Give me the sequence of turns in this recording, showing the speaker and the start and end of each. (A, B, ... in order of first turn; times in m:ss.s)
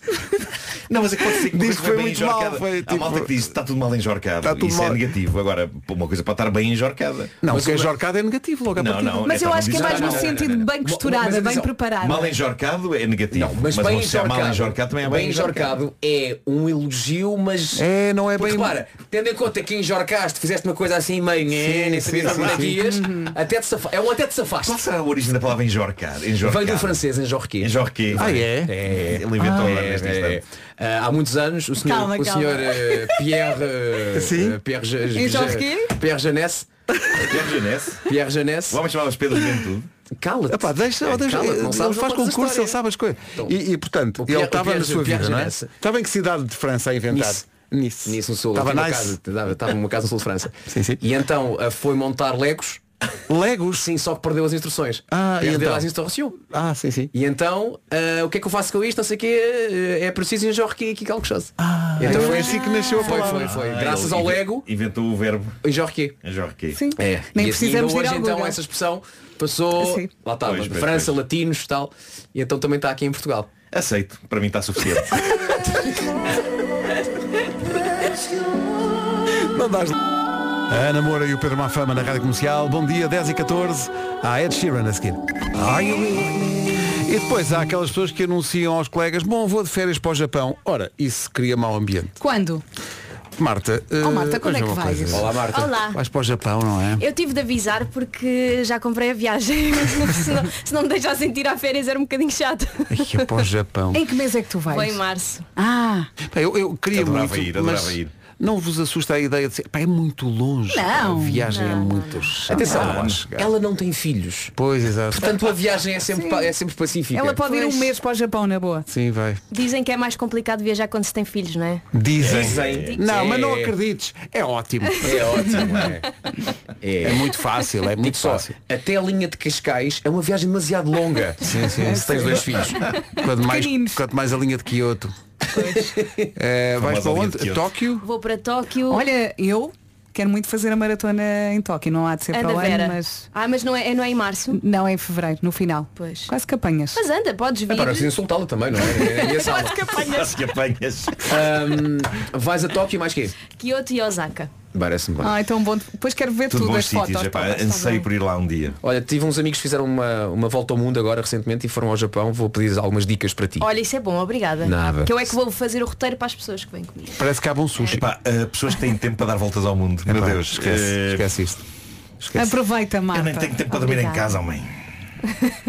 0:00.9-0:07.4 A
0:01.3-0:03.4 B
0:04.4-0:05.1 B
0:07.4-0:09.3 B
0:07.5-0:07.9 C
0:08.8-0:10.6 A
0:09.2-0:12.4 D
0:09.7-0:11.7 C
0:12.0-0:15.8 A
0:13.3-0:24.8 C
0:17.8-0:18.8 B
0:21.5-0:22.8 B
0:22.8-0:23.3 D
0:24.6-0:27.0 A
0:26.4-0:36.7 C
0:27.6-0:30.4 A
0:28.2-0:28.7 B
0:31.9-0:33.2 D
0:34.1-0:34.6 B
0:35.1-0:35.9 D
0:37.3-0:38.1 A
0:38.1-0:38.8 C
0:38.7-0:39.9 A
0:40.2-0:42.8 C
0:40.5-0:49.2 B
0:44.2-0:45.7 C
0:47.1-0:47.4 C
0:48.0-0:52.8 C
0:50.7-0:51.0 B
0:53.3-0:53.9 B
0:53.7-0:56.4 C
0:55.1-0:55.9 B
0:56.4-0:57.1 B
0:57.1-1:04.7 C
1:01.6-1:03.6 B
1:02.1-1:02.5 A
1:02.2-1:03.1 D
1:03.1-1:05.6 A
1:05.6-1:06.2 C
1:06.2-1:06.8 A
1:06.7-1:08.6 D
1:07.0-1:13.5 C
1:09.8-1:10.1 D
1:10.4-1:11.2 A
1:13.7-1:15.3 A
1:19.4-1:20.0 B
1:20.7-1:32.2 B
1:32.2-1:32.6 D
1:33.4-1:37.0 B
1:34.0-1:35.2 D
1:35.1-1:35.7 C
1:35.5-1:36.0 E
1:37.0-1:43.5 E
1:42.9-1:44.0 B
1:43.9-1:45.0 D
1:44.7-1:45.5 E
1:45.6-1:46.1 D
1:46.3-1:53.5 B
1:46.9-1:48.1 A
1:50.7-1:51.5 D
1:51.5-1:52.4 E
1:52.5-1:54.5 C
1:52.7-1:53.2 A
1:54.6-1:55.3 B
1:55.1-1:57.7 C
1:56.1-1:56.5 D
1:57.1-1:58.9 D
1:57.6-1:57.9 E
1:58.9-1:59.4 B
1:59.5-2:01.8 E
2:01.9-2:05.8 B
2:02.2-2:03.0 A
2:02.2-2:03.7 C
2:05.0-2:06.1 C
2:06.8-2:07.3 C
2:07.0-2:08.5 B
2:08.0-2:12.8 C
2:11.4-2:15.2 B
2:11.8-2:14.1 D
2:15.6-2:15.9 E
2:15.8-2:16.3 C
2:16.4-2:18.0 B
2:16.8-2:17.8 A
2:18.0-2:19.1 E
2:18.9-2:23.3 D
2:22.3-2:24.6 E
2:24.5-2:27.0 D
2:26.0-2:26.3 E
2:26.9-2:28.1 E
2:27.7-2:30.0 C
2:29.0-2:30.2 E
2:29.0-2:30.3 D
2:30.1-2:31.5 A
2:31.2-2:33.4 C
2:33.5-2:34.5 E
2:34.7-2:35.4 C
2:35.2-2:38.0 D
2:36.5-2:38.8 A
2:38.8-2:43.7 C
2:43.6-2:48.0 E
2:44.6-2:45.4 C
2:47.2-2:48.1 B
2:48.0-2:51.3 A
2:50.1-2:51.6 B
2:52.2-2:52.6 B
2:52.3-2:53.6 D
2:53.1-2:54.7 A
2:53.7-2:54.4 E